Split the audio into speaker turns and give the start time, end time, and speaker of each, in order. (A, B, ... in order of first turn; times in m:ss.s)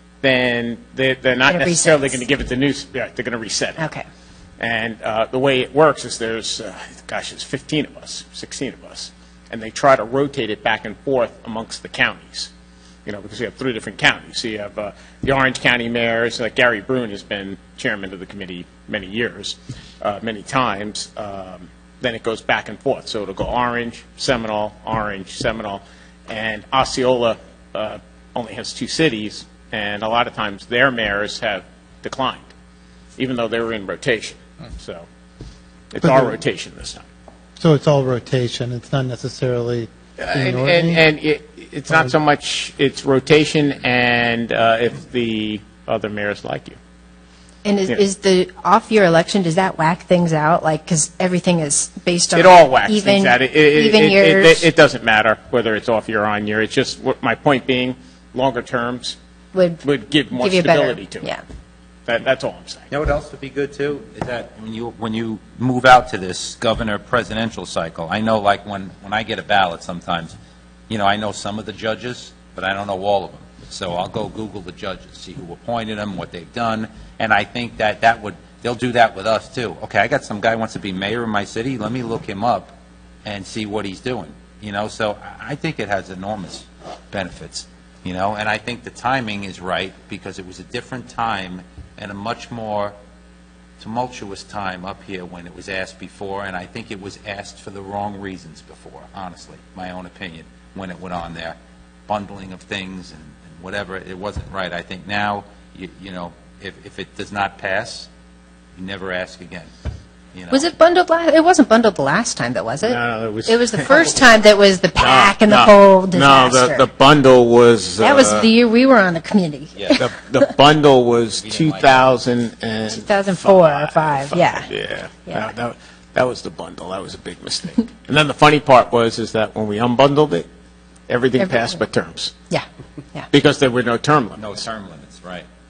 0:00.2-0:03.8 A
0:01.5-0:02.2 B
0:03.8-0:04.0 B
0:04.6-0:12.5 A
0:13.0-0:32.5 A
0:33.2-0:35.1 A
0:35.9-0:37.0 A
0:36.0-0:36.3 C
0:37.6-0:41.0 C
0:40.2-0:46.8 A
0:47.6-0:54.7 B
0:52.3-0:59.2 A
0:59.5-1:01.4 B
0:59.8-1:01.3 A
1:02.0-1:02.8 A
1:02.9-1:10.3 D
1:10.9-1:22.7 D
1:23.2-1:32.9 D
1:33.8-1:48.1 D
1:48.8-1:49.7 D
1:50.3-1:50.7 D
1:50.5-1:56.8 B
1:52.8-1:54.3 A
1:55.0-1:58.5 A
1:58.0-2:00.4 B
2:00.0-2:10.4 A
2:01.4-2:02.0 D
2:02.9-2:04.7 B
2:05.2-2:05.5 B
2:11.1-2:12.3 A
2:11.4-2:11.7 B
2:12.5-2:13.3 B
2:13.3-2:14.6 A
2:14.4-2:15.5 D